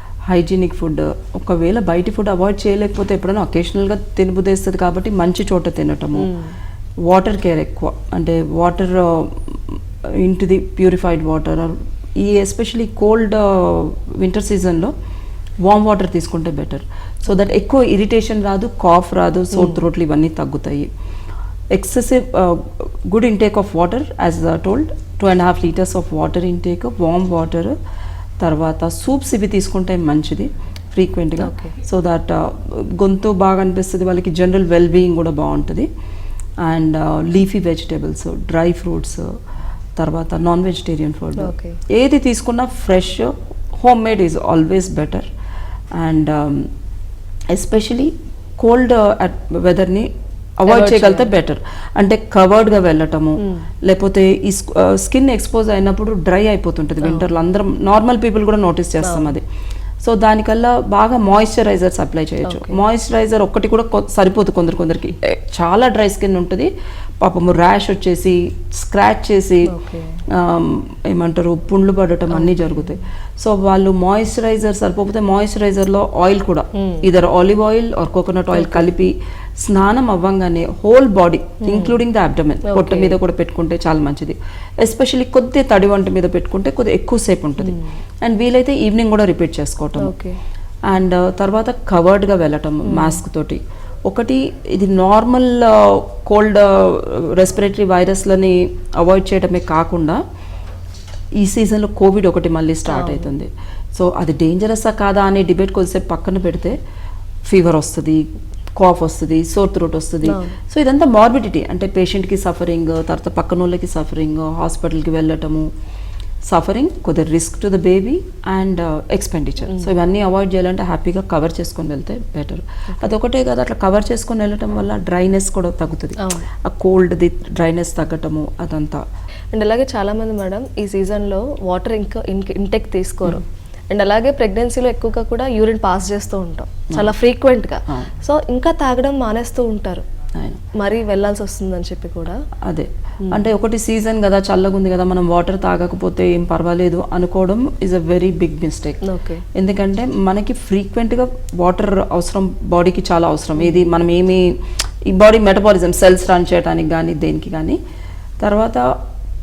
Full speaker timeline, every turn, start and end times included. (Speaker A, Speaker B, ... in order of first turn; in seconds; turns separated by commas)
Speaker A: 0.3-6.3, Speaker B: 6.2-6.5, Speaker A: 7.0-14.9, Speaker A: 15.6-20.9, Speaker B: 19.5-19.8, Speaker A: 21.7-27.7, Speaker A: 28.4-35.9, Speaker B: 31.4-31.8, Speaker A: 36.6-39.3, Speaker A: 40.0-45.3, Speaker B: 41.4-41.8, Speaker A: 45.9-46.7, Speaker A: 47.5-59.4, Speaker B: 50.7-51.3, Speaker B: 53.4-53.7, Speaker B: 57.0-57.3, Speaker B: 59.0-59.3, Speaker A: 60.0-66.7, Speaker B: 62.4-62.8, Speaker A: 67.2-69.7, Speaker B: 69.7-70.2, Speaker A: 70.3-90.1, Speaker B: 72.3-72.9, Speaker B: 76.8-77.1, Speaker B: 78.5-78.9, Speaker B: 81.6-82.0, Speaker B: 82.7-83.2, Speaker B: 87.6-88.0, Speaker B: 90.0-90.4, Speaker A: 90.9-100.2, Speaker B: 92.9-93.2, Speaker A: 101.4-106.8, Speaker B: 102.9-103.3, Speaker A: 107.4-108.2, Speaker A: 108.8-115.7, Speaker B: 110.2-110.5, Speaker A: 116.4-129.0, Speaker B: 126.2-126.5, Speaker B: 129.5-140.0, Speaker B: 140.7-142.3, Speaker A: 142.7-149.0, Speaker B: 149.0-149.4, Speaker A: 149.5-154.5, Speaker B: 153.6-153.9, Speaker A: 155.1-157.8, Speaker A: 158.4-158.8